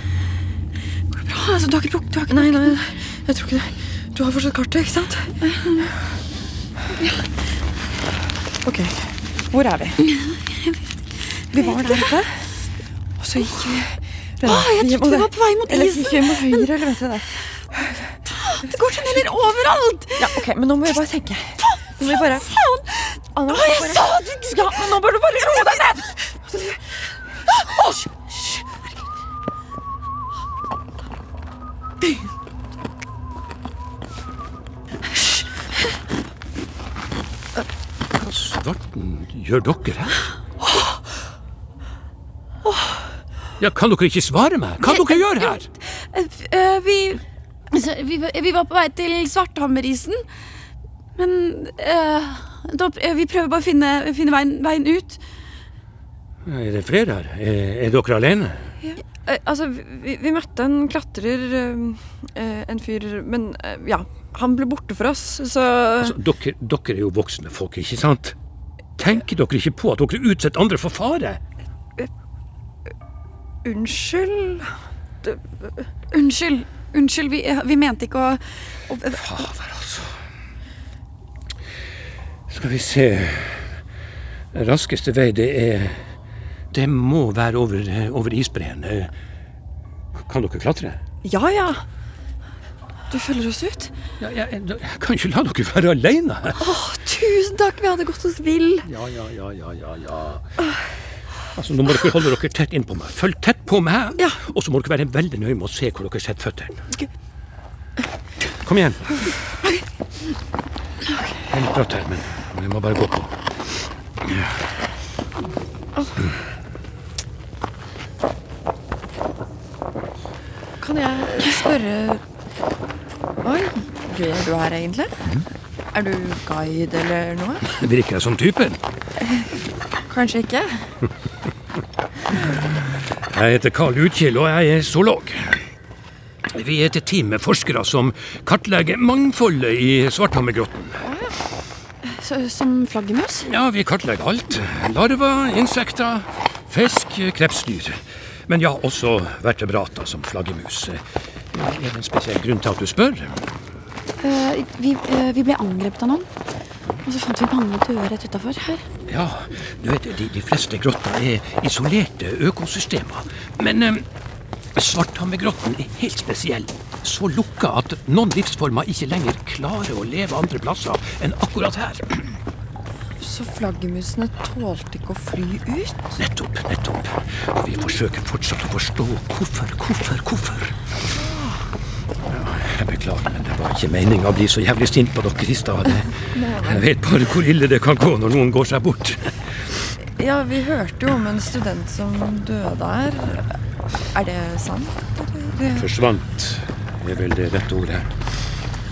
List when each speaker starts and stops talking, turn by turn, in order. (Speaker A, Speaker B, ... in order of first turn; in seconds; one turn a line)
Speaker A: 1.1-2.8
Speaker B: 2.3-5.3
Speaker A: 5.4-5.9
Speaker B: 8.6-10.0
Speaker A: 10.1-10.8
Speaker A: 11.5-12.2
Speaker B: 11.5-12.4
Speaker B: 13.2-17.3
Speaker A: 14.4-16.6
Speaker A: 18.4-20.4
Speaker B: 18.7-19.2
Speaker B: 20.2-22.5
Speaker A: 21.6-26.1
Speaker B: 23.3-26.0
Speaker A: 27.5-28.6
Speaker C: 38.2-40.2
Speaker C: 43.6-45.7
Speaker A: 44.8-50.2
Speaker A: 51.1-55.2
Speaker C: 56.5-58.6
Speaker B: 58.9-66.2
Speaker C: 66.0-68.3
Speaker C: 69.0-71.4
Speaker B: 73.6-74.7
Speaker A: 76.1-79.2
Speaker C: 79.1-80.1
Speaker C: 82.5-83.7
Speaker C: 84.5-86.0
Speaker C: 86.7-89.1
Speaker C: 90.2-91.0
Speaker B: 91.2-91.8
Speaker B: 93.1-93.9
Speaker C: 94.2-96.6
Speaker B: 96.6-98.9
Speaker C: 98.8-100.4
Speaker C: 101.5-106.8
Speaker C: 108.6-109.2
Speaker C: 111.5-113.3
Speaker C: 114.2-114.5
Speaker B: 120.8-122.2
Speaker B: 123.4-125.2
Speaker B: 125.9-127.7
Speaker C: 127.7-128.8
Speaker B: 130.1-130.8
Speaker C: 133.3-135.6
Speaker C: 136.5-141.0
Speaker B: 141.0-141.3
Speaker A: 142.0-143.4
Speaker C: 143.4-151.0
Speaker C: 151.5-153.4
Speaker A: 154.2-156.3
Speaker A: 157.0-158.8
Speaker C: 159.1-164.0
Speaker C: 164.7-172.3
Speaker B: 173.2-176.2
Speaker C: 176.2-180.8
Speaker B: 181.2-181.5
Speaker C: 182.3-189.3
Speaker B: 186.3-186.8
Speaker B: 190.1-193.5
Speaker B: 194.1-195.9
Speaker C: 195.7-198.1